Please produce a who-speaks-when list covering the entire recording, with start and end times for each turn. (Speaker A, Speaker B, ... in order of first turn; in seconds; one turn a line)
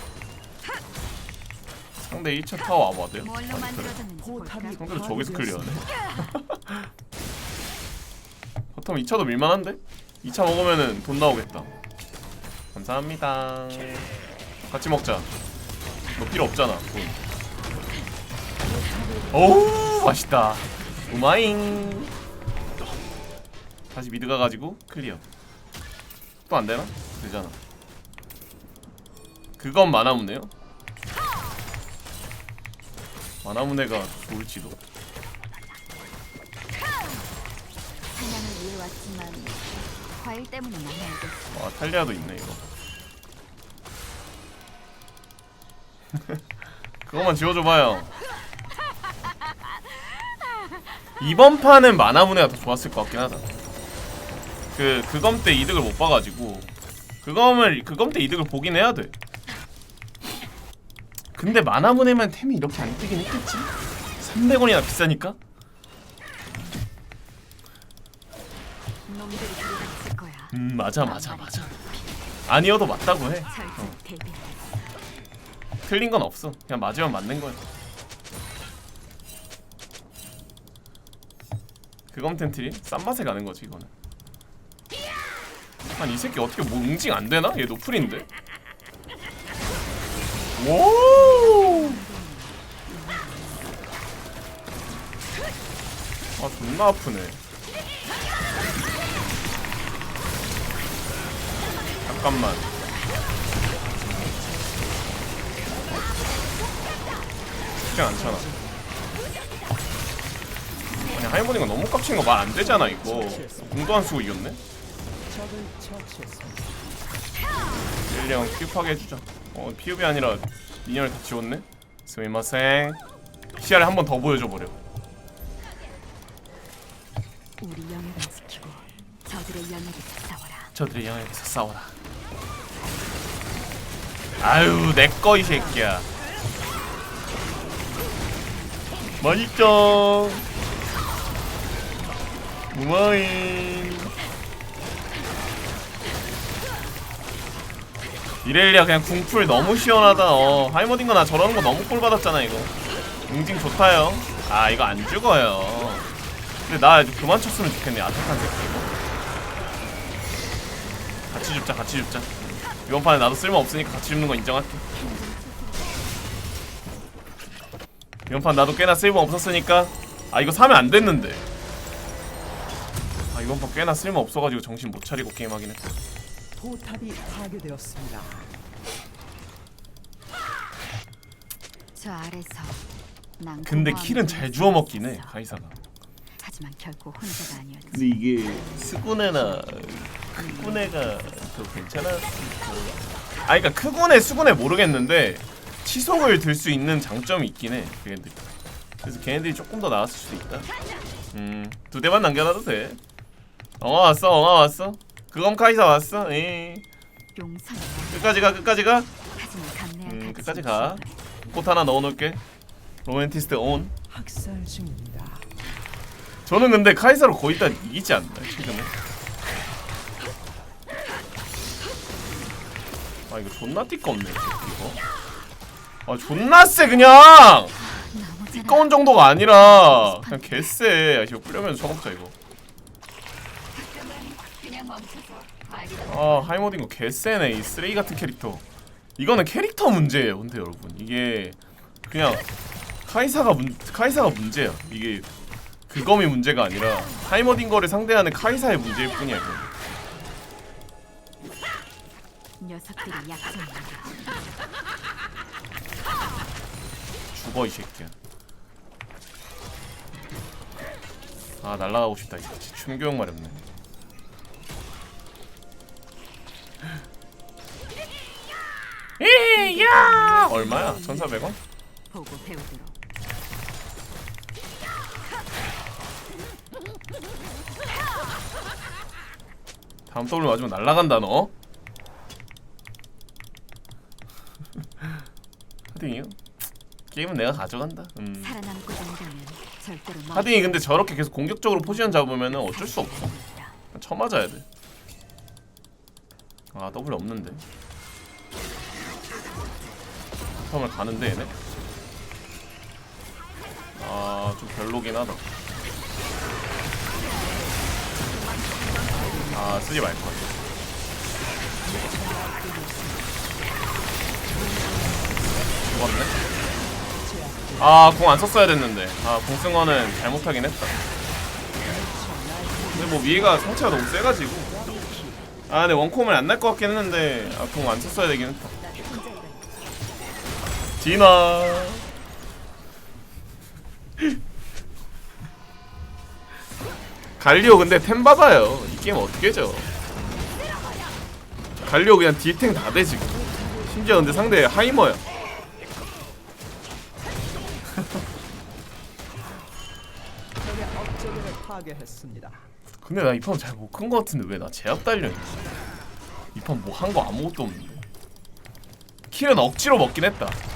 Speaker A: 2.0-4.0
Speaker B: 3.2-5.4
Speaker C: 4.2-5.9
Speaker A: 4.8-6.9
Speaker A: 8.7-11.7
Speaker A: 12.7-14.1
Speaker A: 14.6-15.3
Speaker A: 16.1-17.2
Speaker C: 18.6-20.0
Speaker A: 19.3-22.1
Speaker A: 23.9-25.2
Speaker A: 26.5-27.6
Speaker A: 29.6-30.5
Speaker A: 33.4-34.8
Speaker B: 38.1-41.6
Speaker A: 41.5-42.6
Speaker A: 46.1-46.4
Speaker A: 47.1-48.1
Speaker A: 51.2-53.5
Speaker A: 54.7-59.1
Speaker A: 61.4-65.4
Speaker B: 69.1-72.3
Speaker A: 70.5-71.7
Speaker A: 72.5-74.0
Speaker B: 73.5-75.0
Speaker A: 75.9-77.6
Speaker A: 82.1-83.9
Speaker A: 86.0-88.3
Speaker A: 90.6-92.0
Speaker B: 91.0-93.8
Speaker A: 96.4-97.4
Speaker A: 102.0-102.7
Speaker C: 103.9-105.3
Speaker A: 107.8-108.5
Speaker C: 107.9-108.8
Speaker A: 111.0-114.6
Speaker C: 112.5-113.8
Speaker C: 115.3-116.8
Speaker A: 118.1-123.0
Speaker A: 123.6-124.8
Speaker B: 127.6-130.7
Speaker A: 130.8-132.0
Speaker A: 134.4-136.1
Speaker A: 139.2-140.5
Speaker A: 142.7-144.1
Speaker A: 148.4-152.7
Speaker B: 149.8-150.7
Speaker A: 153.3-156.1
Speaker A: 156.7-158.9
Speaker A: 161.3-164.8
Speaker B: 164.9-166.2
Speaker A: 168.3-171.4
Speaker A: 173.3-176.0
Speaker C: 176.6-178.5
Speaker B: 181.9-182.9
Speaker B: 183.4-185.4
Speaker A: 183.6-185.8
Speaker B: 186.4-188.2
Speaker A: 187.9-192.7
Speaker B: 189.5-191.4
Speaker A: 193.4-198.4
Speaker A: 199.0-200.7
Speaker A: 201.3-203.0
Speaker A: 203.8-206.8
Speaker B: 207.3-208.7
Speaker A: 208.1-209.1
Speaker B: 209.2-211.2
Speaker A: 210.1-212.4
Speaker A: 213.1-213.9
Speaker C: 214.1-215.5
Speaker A: 216.5-218.9
Speaker A: 223.3-225.0
Speaker A: 226.1-227.7
Speaker B: 227.8-230.8
Speaker A: 228.5-232.3
Speaker B: 233.7-236.8
Speaker A: 236.1-238.6
Speaker A: 239.2-242.4
Speaker A: 243.1-245.3
Speaker A: 245.9-249.7
Speaker B: 252.6-254.2
Speaker A: 257.3-258.1
Speaker A: 261.6-263.6
Speaker A: 269.2-271.6
Speaker B: 269.6-271.6
Speaker B: 272.1-273.0
Speaker A: 280.1-281.5
Speaker A: 285.9-286.6
Speaker A: 287.1-288.6
Speaker B: 288.4-293.8
Speaker A: 290.3-293.4
Speaker A: 293.9-294.6
Speaker A: 296.7-297.6
Speaker A: 300.7-301.6
Speaker A: 303.9-305.4
Speaker B: 308.2-309.8
Speaker C: 309.1-310.2
Speaker A: 309.5-310.6
Speaker C: 311.8-313.4
Speaker C: 314.5-315.8
Speaker A: 315.9-316.4
Speaker C: 317.2-318.1
Speaker A: 317.8-320.9
Speaker C: 321.8-325.5
Speaker A: 322.9-324.7
Speaker A: 325.7-328.7
Speaker B: 328.7-329.7
Speaker A: 331.0-332.1
Speaker A: 337.4-339.9
Speaker A: 341.8-343.4
Speaker C: 343.2-345.2
Speaker A: 343.9-345.2
Speaker C: 350.6-352.7
Speaker A: 353.0-355.7
Speaker A: 356.5-358.1
Speaker A: 359.3-360.6